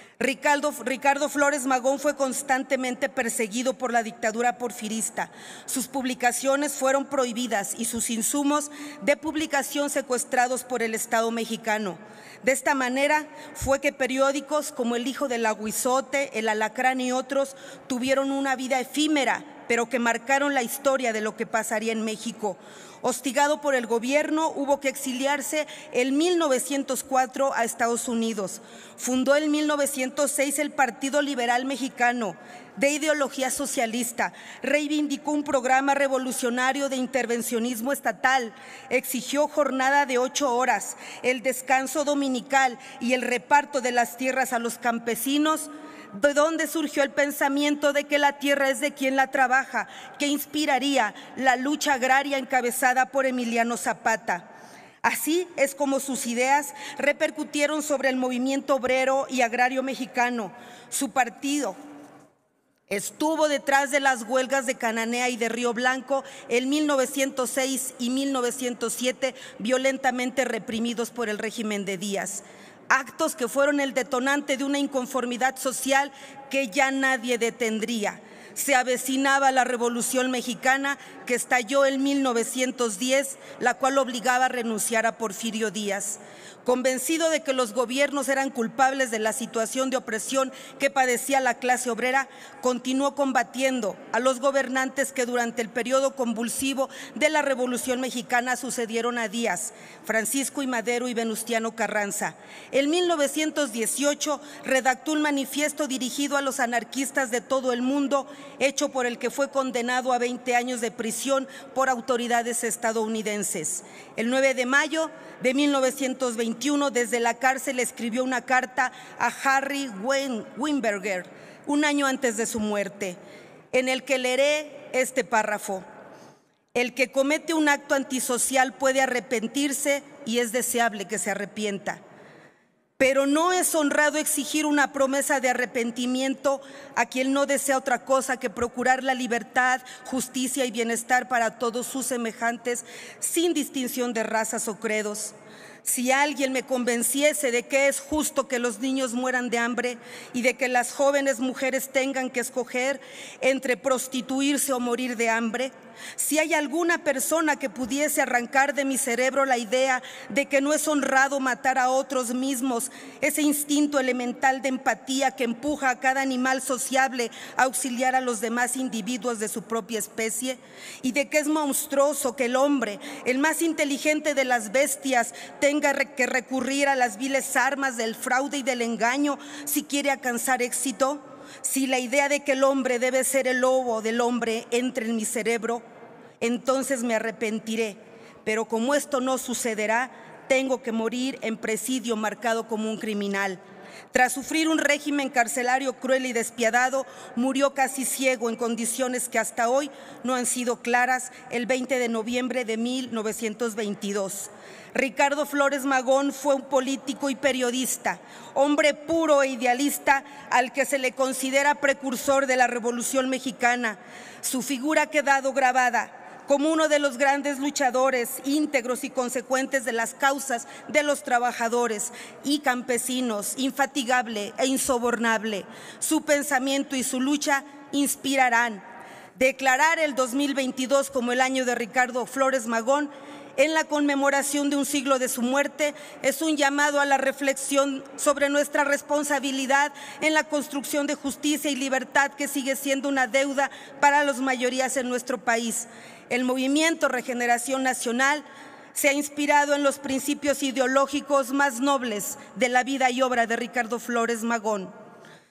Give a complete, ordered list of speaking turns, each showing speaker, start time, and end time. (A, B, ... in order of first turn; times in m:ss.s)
0:00.2-0:54.5 A
0:55.0-1:01.8 A
1:02.9-2:03.2 A
2:03.7-2:05.8 A
2:06.7-2:12.0 A
2:13.0-3:05.8 A
3:06.4-3:13.6 A
3:14.1-3:48.8 A
3:49.4-4:14.9 A